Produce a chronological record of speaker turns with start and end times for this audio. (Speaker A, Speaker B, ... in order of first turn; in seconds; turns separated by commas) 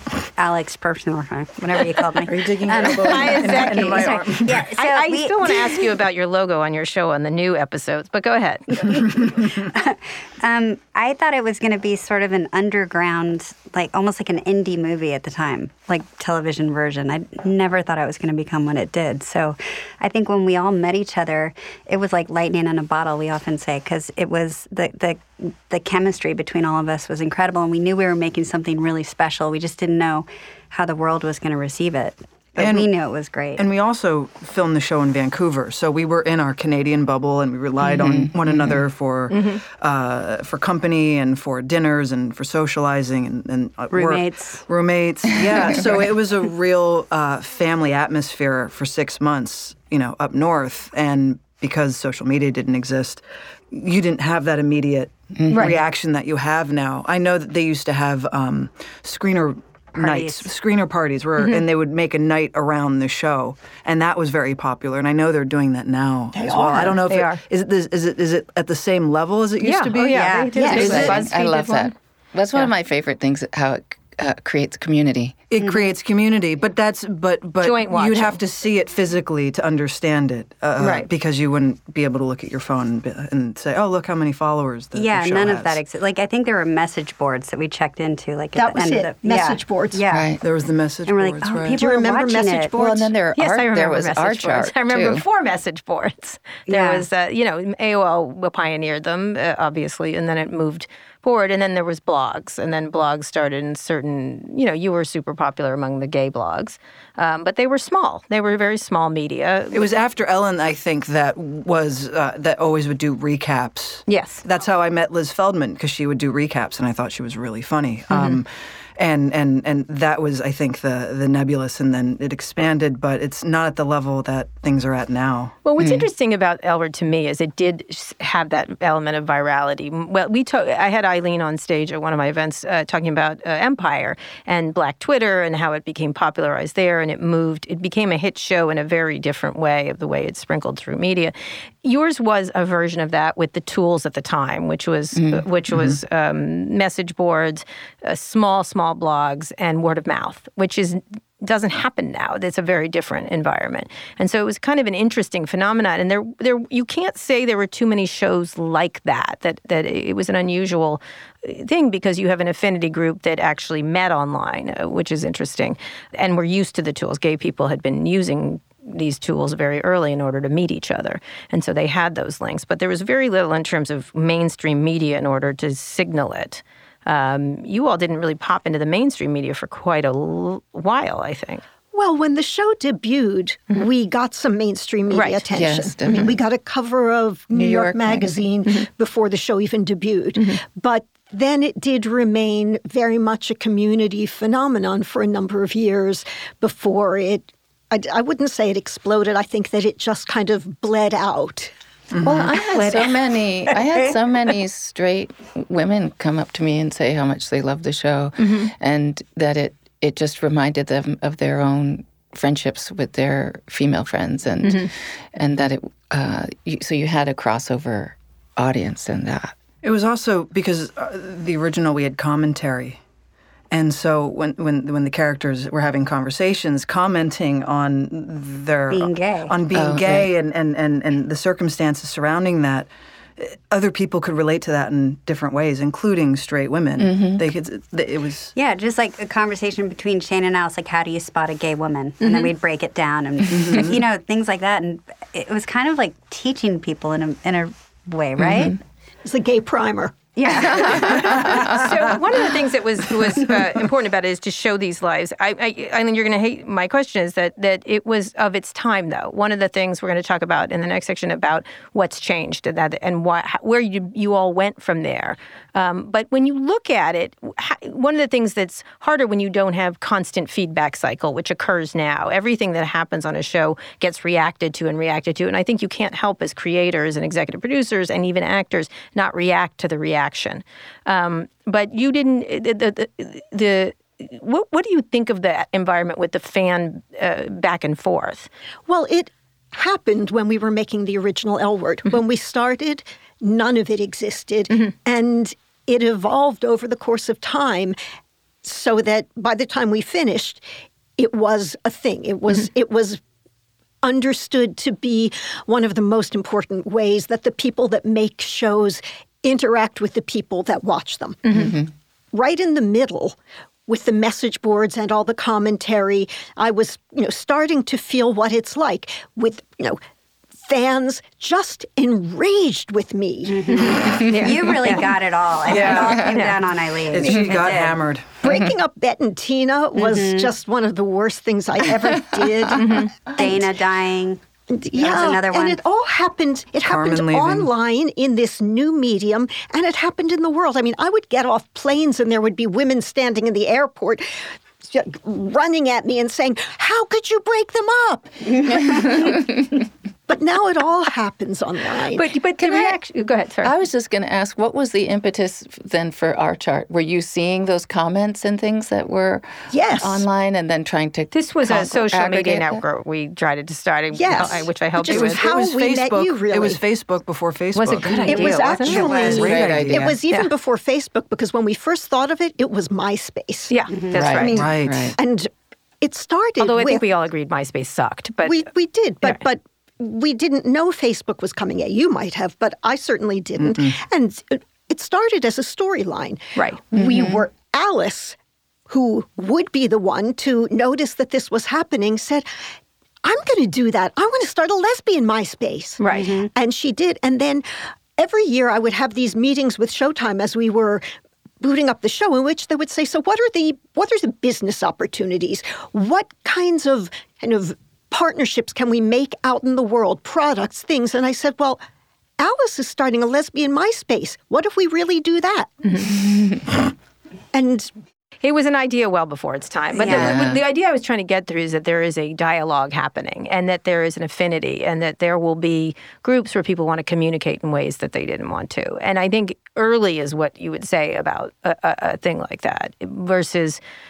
Speaker A: 0.4-5.8, Speaker B: 2.2-4.7, Speaker C: 3.0-9.0, Speaker A: 8.8-33.6, Speaker B: 9.0-9.5, Speaker B: 32.6-32.9, Speaker B: 33.6-71.1, Speaker D: 37.8-38.8, Speaker C: 39.3-39.6, Speaker A: 43.9-44.6, Speaker D: 55.4-55.7, Speaker C: 55.5-55.8, Speaker A: 59.9-60.5, Speaker E: 66.3-67.1, Speaker C: 67.0-67.4, Speaker C: 69.6-71.9, Speaker A: 70.1-70.5, Speaker E: 70.5-71.2, Speaker D: 70.7-75.4, Speaker B: 75.5-85.8, Speaker A: 75.6-75.9, Speaker C: 77.6-78.4, Speaker C: 80.8-81.1, Speaker A: 84.9-90.3, Speaker E: 88.5-90.0, Speaker D: 90.1-90.4, Speaker B: 90.4-91.8, Speaker A: 91.1-92.7, Speaker E: 91.7-93.1, Speaker D: 92.7-95.2, Speaker C: 93.3-109.9, Speaker A: 96.7-97.0, Speaker B: 109.7-125.5, Speaker C: 114.1-114.4, Speaker C: 118.1-118.4, Speaker C: 125.6-141.3, Speaker D: 125.8-126.0, Speaker C: 141.8-181.6, Speaker D: 145.1-145.4, Speaker E: 181.9-201.7, Speaker C: 185.1-185.4, Speaker D: 185.5-186.4, Speaker D: 187.5-188.4, Speaker B: 202.1-202.5, Speaker D: 202.2-219.6, Speaker C: 208.4-208.7, Speaker C: 214.6-214.9, Speaker B: 219.8-223.0, Speaker B: 223.7-238.5, Speaker A: 228.9-229.6, Speaker D: 229.7-230.3, Speaker D: 237.0-237.4, Speaker A: 238.6-248.8, Speaker C: 242.2-242.5, Speaker B: 243.5-244.0, Speaker D: 248.4-248.8, Speaker E: 249.2-251.1, Speaker A: 250.3-251.7, Speaker B: 250.9-251.7, Speaker C: 251.7-288.5, Speaker E: 288.9-297.9, Speaker E: 298.6-300.6, Speaker E: 301.2-303.2, Speaker E: 304.0-311.8, Speaker C: 311.4-311.7, Speaker D: 311.5-311.9, Speaker E: 312.3-320.0, Speaker E: 320.6-324.0, Speaker A: 323.5-328.0, Speaker C: 323.7-325.1, Speaker B: 325.7-326.3, Speaker C: 325.7-326.6, Speaker B: 327.1-328.4, Speaker E: 328.4-333.7, Speaker A: 329.9-330.5, Speaker C: 332.7-333.1, Speaker A: 333.4-334.4, Speaker E: 334.7-344.2, Speaker A: 334.9-335.8, Speaker B: 336.9-337.7, Speaker E: 344.8-352.3, Speaker D: 348.9-349.4, Speaker C: 352.1-353.7, Speaker D: 353.6-362.8, Speaker E: 359.7-360.2, Speaker C: 361.3-365.4, Speaker E: 364.1-366.8, Speaker B: 365.1-370.1, Speaker C: 367.7-369.4, Speaker E: 368.1-375.5, Speaker A: 368.3-369.6, Speaker D: 369.4-370.1, Speaker C: 373.7-374.6, Speaker A: 373.9-374.2, Speaker D: 374.1-375.2, Speaker B: 374.5-375.1, Speaker E: 376.0-377.1, Speaker C: 376.6-378.6, Speaker E: 378.4-388.4, Speaker B: 383.6-383.9, Speaker D: 386.9-387.4, Speaker E: 388.9-392.4, Speaker E: 393.2-397.6, Speaker C: 396.0-396.3, Speaker A: 396.1-396.5, Speaker E: 398.2-401.0, Speaker E: 401.6-411.8, Speaker E: 412.4-416.2, Speaker D: 416.2-416.6, Speaker E: 417.5-417.9, Speaker C: 418.4-433.8, Speaker A: 420.0-420.3, Speaker D: 420.0-420.6